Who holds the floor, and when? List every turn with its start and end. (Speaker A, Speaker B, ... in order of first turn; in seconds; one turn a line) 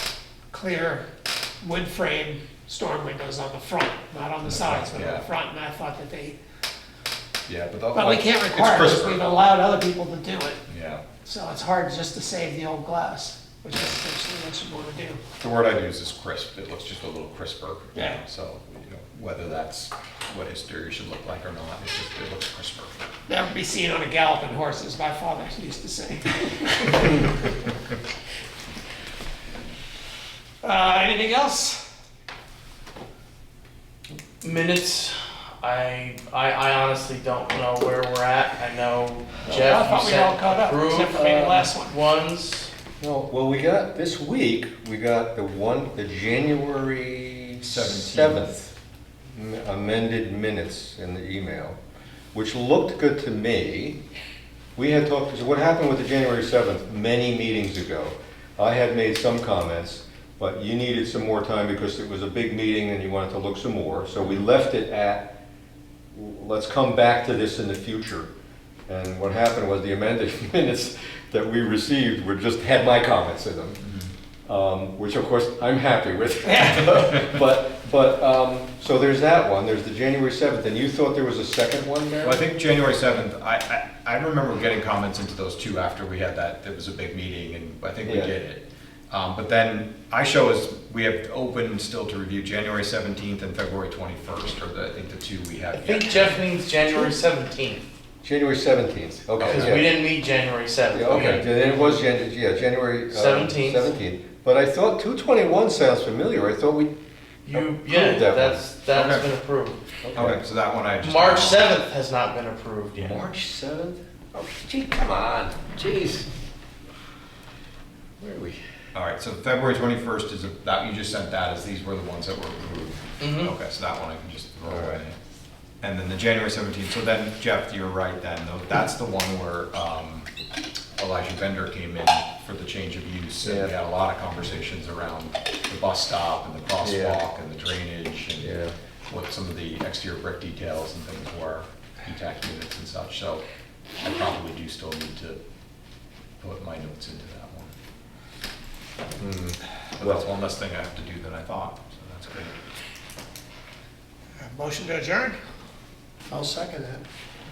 Speaker A: 0.5-1.0
Speaker A: 1.6-6.4
Speaker B: 4.4-5.2
Speaker B: 7.5-9.3
Speaker A: 7.9-10.6
Speaker B: 10.7-11.0
Speaker A: 11.2-15.2
Speaker B: 13.7-14.0
Speaker B: 15.4-23.0
Speaker A: 17.9-18.2
Speaker A: 23.3-27.4
Speaker A: 30.6-31.8
Speaker C: 34.4-42.7
Speaker A: 39.5-42.0
Speaker D: 43.0-48.7
Speaker B: 47.6-48.6
Speaker D: 49.3-51.8
Speaker D: 52.3-54.0
Speaker D: 54.8-65.3
Speaker D: 66.1-68.3
Speaker D: 68.9-73.8
Speaker B: 73.8-74.1
Speaker D: 74.5-82.4
Speaker A: 76.5-77.1
Speaker B: 82.2-96.4
Speaker D: 88.0-88.3
Speaker C: 95.7-97.8
Speaker D: 98.2-100.0
Speaker B: 99.3-99.8
Speaker C: 99.4-102.1
Speaker D: 100.9-106.9
Speaker B: 101.1-101.4
Speaker C: 103.1-104.0
Speaker C: 107.4-109.8
Speaker D: 107.5-108.6
Speaker B: 108.9-109.3
Speaker D: 110.0-110.4
Speaker B: 110.1-111.8
Speaker C: 111.0-113.2
Speaker D: 112.9-116.3
Speaker D: 118.2-118.6
Speaker B: 118.9-125.2
Speaker C: 123.2-123.5
Speaker D: 124.7-125.0
Speaker B: 125.8-130.3
Speaker B: 131.0-138.6
Speaker D: 133.4-133.7
Speaker D: 136.8-137.2
Speaker D: 138.4-138.7
Speaker B: 139.1-143.4
Speaker B: 144.0-145.4
Speaker B: 146.4-147.7
Speaker D: 149.2-150.2
Speaker B: 149.9-152.5
Speaker A: 154.4-155.4
Speaker A: 156.3-157.0